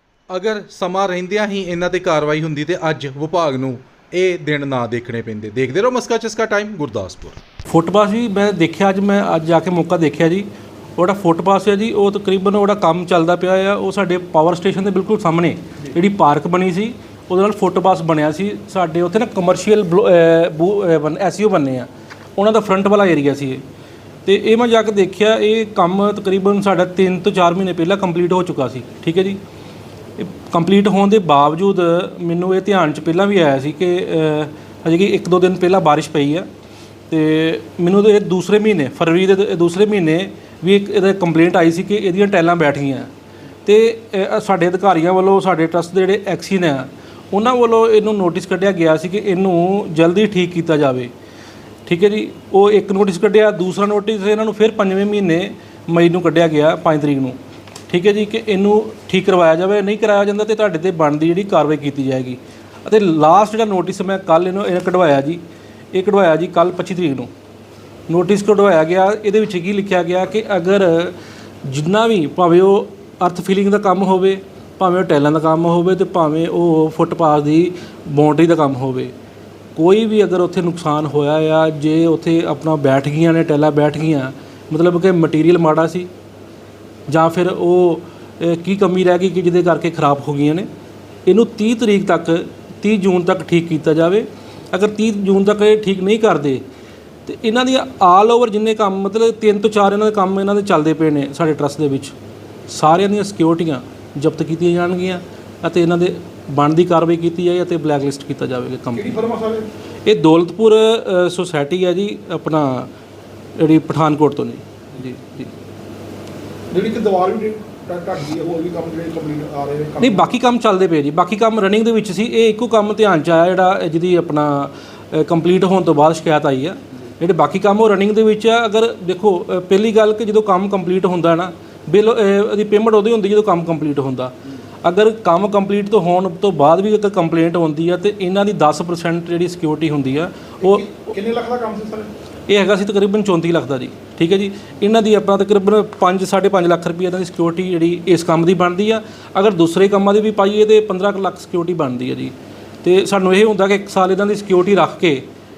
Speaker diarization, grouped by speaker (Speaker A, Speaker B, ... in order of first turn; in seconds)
Speaker A: 0.3-7.4
Speaker B: 7.7-23.6, 24.2-29.4, 30.2-36.5, 37.1-43.1, 43.6-51.1, 51.9-57.4, 57.9-65.4, 65.9-67.3, 68.1-79.1, 79.8-86.1, 87.1-90.7, 91.2-96.6, 97.2-102.1, 102.7-109.2, 110.0-112.9, 113.6-115.5, 120.0-141.1, 142.5-155.2
Speaker C: 108.9-109.7, 116.7-120.3, 140.6-142.1